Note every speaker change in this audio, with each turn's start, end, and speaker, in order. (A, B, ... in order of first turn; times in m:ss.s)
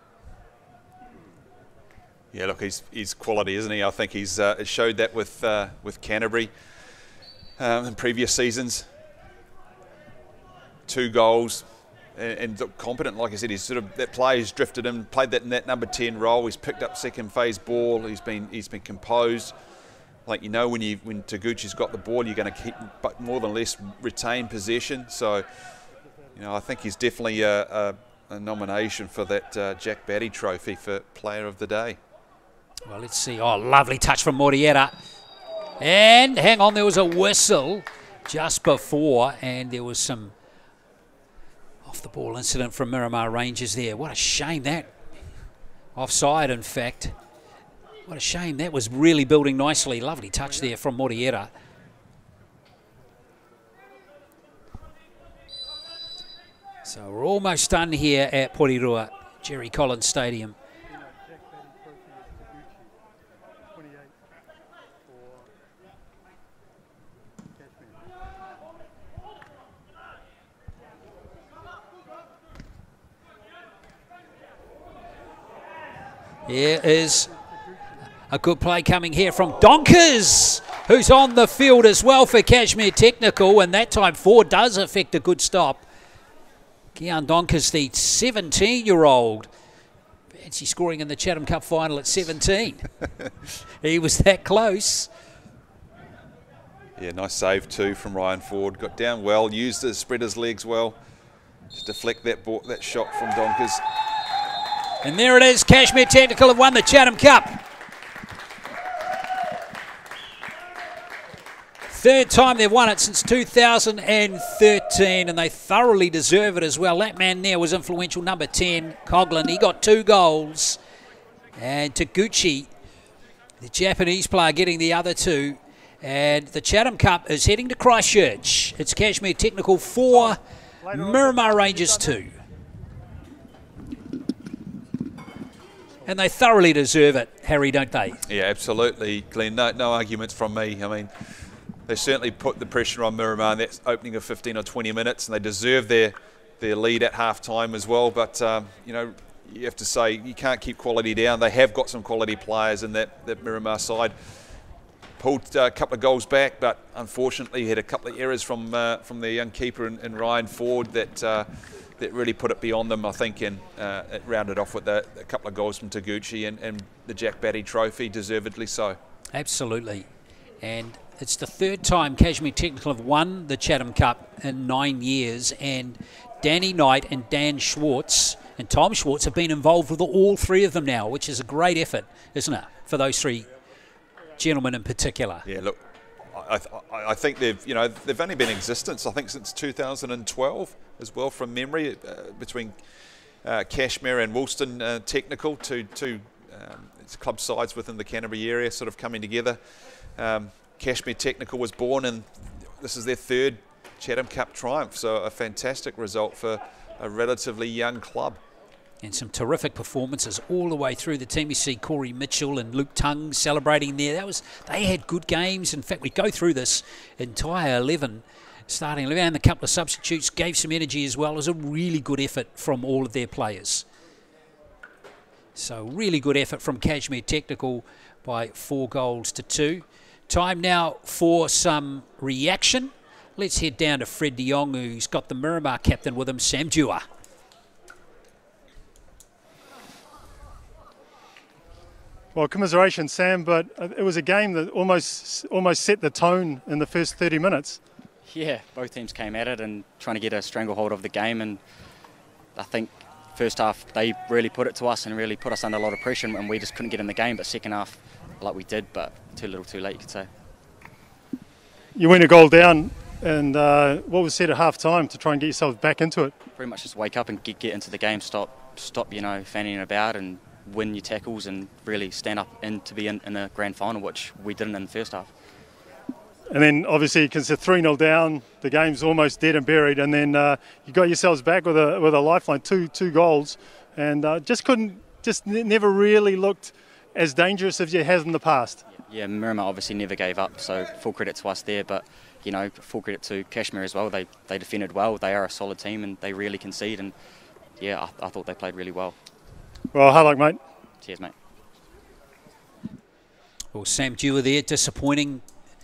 0:02.3-0:06.5 A
0:07.6-0:08.9 A
0:10.9-0:19.5 A
0:20.2-0:25.4 A
0:26.3-0:32.0 A
0:32.9-0:35.0 B
0:35.8-0:40.3 B
0:41.8-0:44.9 B
0:45.9-0:47.2 B
0:48.0-0:51.5 B
0:56.8-1:00.6 B
1:16.5-1:17.3 B
1:18.3-1:25.8 B
1:26.9-1:29.5 B
1:30.3-1:32.9 B
1:33.8-1:35.1 B
1:37.0-1:41.0 A
1:41.7-1:43.8 A
1:45.0-1:47.6 B
1:51.9-2:00.8 B
2:01.6-2:02.7 B
2:03.6-2:12.3 B
2:10.8-2:11.9 C
2:16.0-2:18.2 B
2:18.3-2:34.1 A
2:35.2-2:49.0 A
2:49.3-2:50.1 B
2:50.6-3:03.5 B
3:04.4-3:05.4 B
3:05.4-3:12.8 A
3:13.4-3:19.6 A
3:20.1-3:28.4 A
3:29.0-3:43.8 B
3:45.5-3:57.0 B
4:02.3-4:07.8 C
4:08.2-4:11.6 D
4:12.5-4:20.3 D
4:22.0-4:26.3 C
4:26.6-4:35.3 D
4:36.5-4:48.8 C
4:48.9-4:57.1 D
4:57.8-4:59.2 D
4:59.9-5:00.6 C
5:01.0-5:01.3 D
5:03.7-5:05.4 B